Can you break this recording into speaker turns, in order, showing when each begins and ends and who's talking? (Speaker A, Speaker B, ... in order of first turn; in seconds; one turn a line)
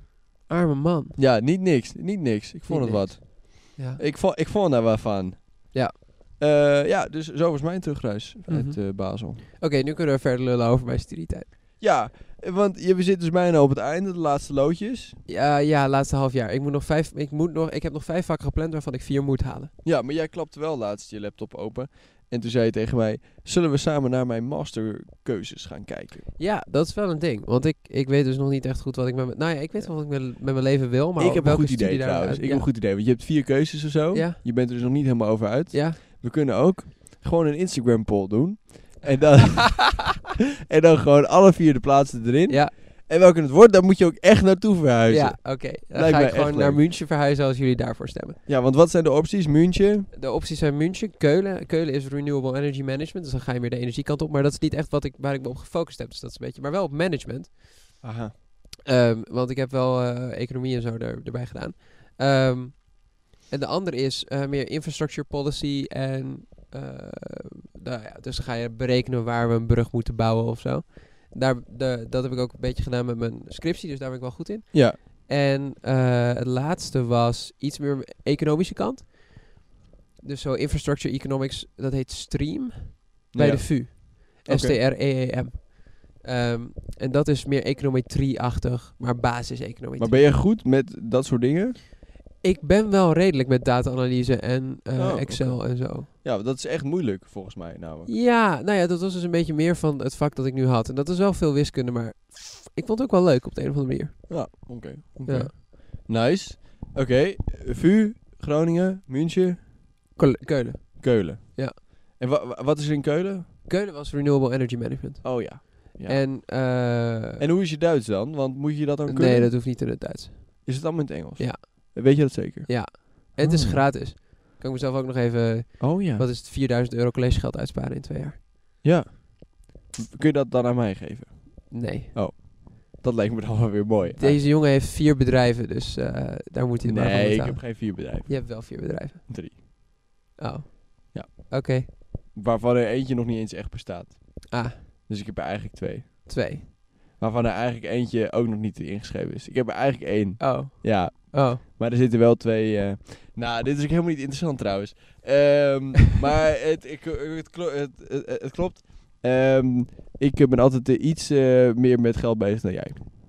Speaker A: 0.5-1.2
Speaker B: 1.1-9.4
Speaker A: 2.7-4.0
Speaker A: 8.5-11.5
Speaker B: 11.8-15.2
Speaker A: 15.3-19.7
Speaker B: 19.8-26.3
Speaker A: 26.4-32.7
Speaker B: 31.2-46.8
Speaker A: 34.1-34.4
Speaker A: 35.7-36.0
Speaker A: 42.5-42.7
Speaker A: 45.1-48.4
Speaker B: 48.5-50.1
Speaker A: 50.1-58.0
Speaker B: 58.0-58.3
Speaker A: 58.8-79.7
Speaker B: 74.7-75.0
Speaker A: 80.2-90.3
Speaker B: 83.3-84.8
Speaker B: 90.0-91.8
Speaker A: 92.4-96.1
Speaker B: 95.0-98.1
Speaker A: 98.1-104.6
Speaker B: 104.3-109.7
Speaker A: 105.2-105.5
Speaker A: 110.2-111.8
Speaker B: 111.0-113.5
Speaker A: 113.7-117.4
Speaker B: 115.2-116.2
Speaker B: 117.4-119.6
Speaker A: 119.0-128.4
Speaker B: 120.6-123.8
Speaker B: 125.8-126.3
Speaker B: 128.8-134.4
Speaker A: 131.7-132.1
Speaker A: 134.1-139.6
Speaker B: 136.8-139.6
Speaker A: 140.4-141.9
Speaker B: 141.1-163.1
Speaker A: 144.5-144.8
Speaker A: 146.2-146.7
Speaker A: 150.4-151.6